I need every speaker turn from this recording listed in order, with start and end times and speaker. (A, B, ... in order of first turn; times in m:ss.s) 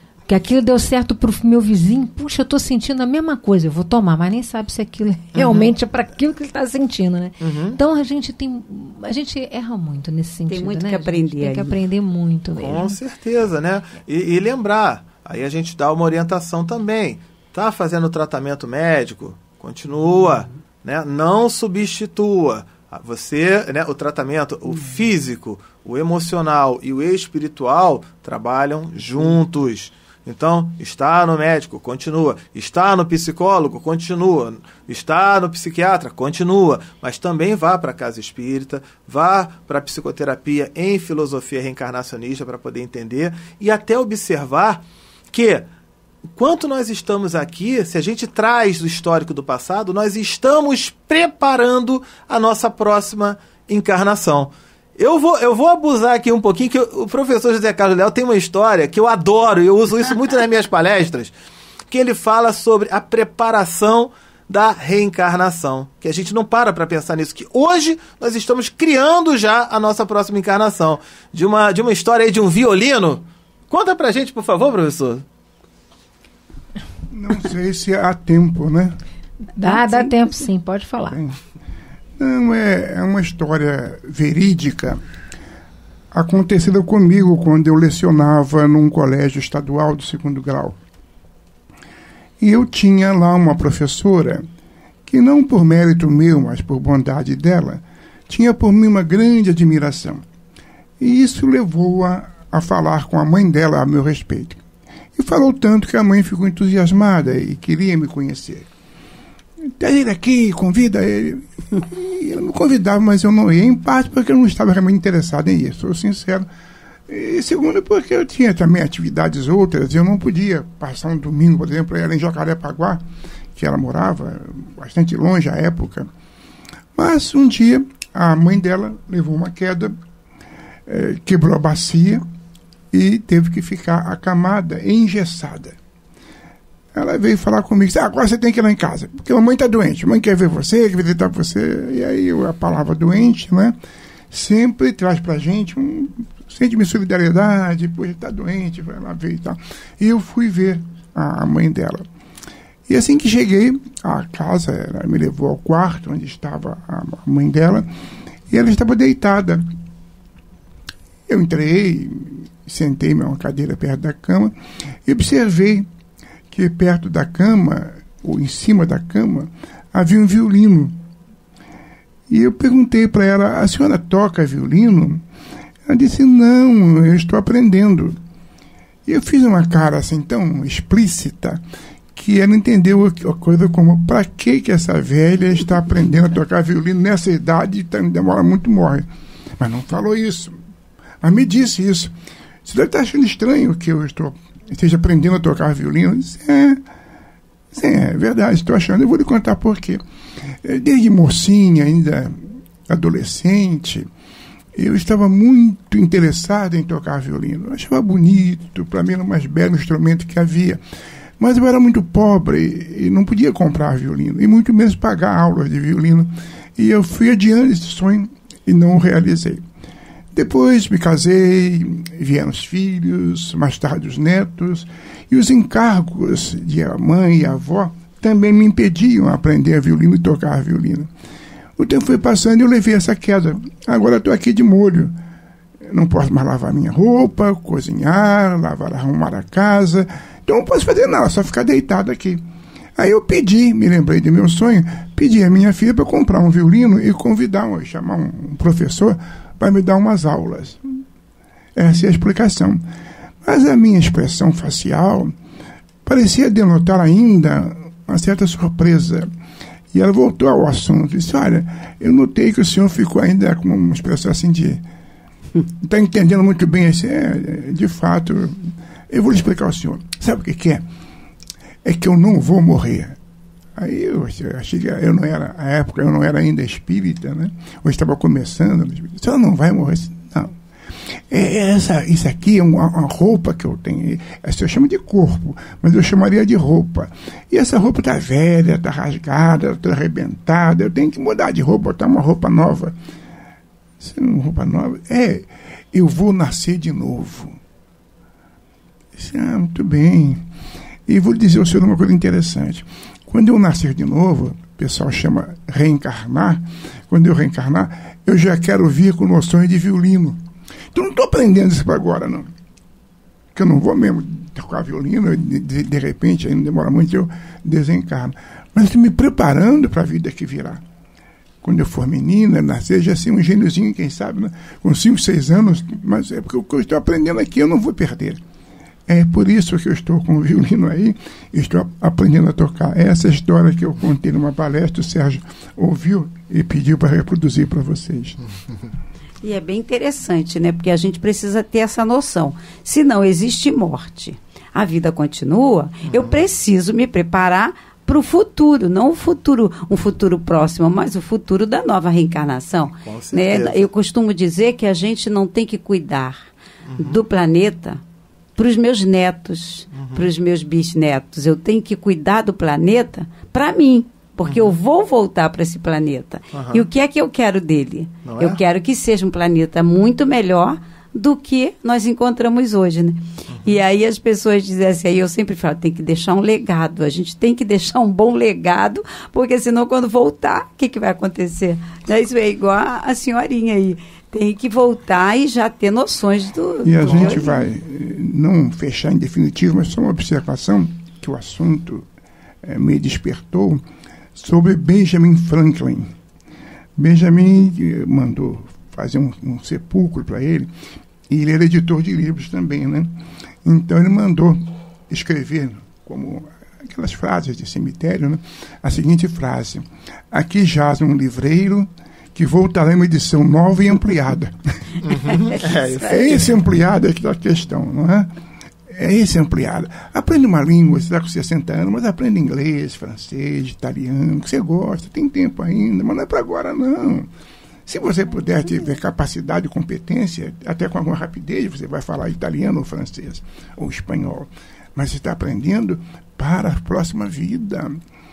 0:00.3-0:13.0 A
0:05.4-0:05.7 B
0:07.4-0:07.8 B
0:10.5-0:11.8 C
0:12.6-0:45.7 B
0:46.3-1:01.3 B
1:01.9-1:15.2 B
1:17.1-1:19.0 D
1:19.6-1:21.2 A
1:21.1-1:21.4 D
1:22.2-1:25.0 D
1:26.1-1:30.8 D
1:32.4-1:34.5 D
1:35.1-1:40.2 D
1:41.0-1:44.6 D
1:45.2-1:48.7 D
1:49.8-1:56.5 D
1:57.1-2:03.0 D
2:03.6-2:06.1 D
2:07.0-2:10.0 D
2:10.9-2:12.2 D
2:12.9-2:15.8 D
2:16.9-2:23.8 D
2:24.3-2:32.1 D
2:32.9-2:37.9 D
2:38.5-2:39.6 D
2:41.3-2:45.9 D
2:46.5-2:51.0 D
2:52.3-2:55.2 D
2:55.9-2:58.2 D
2:59.1-3:01.6 D
3:02.1-3:09.1 D
3:09.6-3:10.6 D
3:11.2-3:16.8 D
3:17.7-3:20.0 D
3:20.6-3:24.1 D
3:24.8-3:30.8 D
3:31.4-3:39.6 D
3:40.3-3:51.1 D
3:51.8-3:55.2 D
3:55.8-4:02.4 D
4:03.0-4:10.8 D
4:11.8-4:12.8 D
4:13.4-4:15.4 D
4:16.0-4:19.3 D
4:19.9-4:24.8 D
4:25.8-4:30.8 D
4:31.8-4:33.2 D
4:33.8-4:40.6 D
4:41.3-4:53.0 D
4:54.0-4:57.6 D
4:59.2-5:00.4 D
5:01.1-5:10.4 D
5:10.9-5:12.5 D
5:13.5-5:20.8 D
5:21.6-5:28.4 D
5:29.1-5:38.4 D
5:39.4-5:58.0 C
5:46.1-5:46.4 B
5:53.0-5:53.9 B
5:56.9-5:57.2 B
5:58.6-6:27.6 C
5:59.9-6:00.3 B
6:04.4-6:04.8 B
6:06.5-6:06.9 B
6:08.2-6:08.6 B
6:13.5-6:13.8 B
6:26.8-6:32.1 D
6:27.0-6:27.5 B
6:32.6-6:33.8 D
6:34.4-6:36.1 D
6:37.0-6:40.7 D
6:41.3-6:54.9 D
6:55.0-6:56.6 B
6:56.0-6:58.3 D
6:58.9-7:07.3 D
7:07.9-7:18.0 D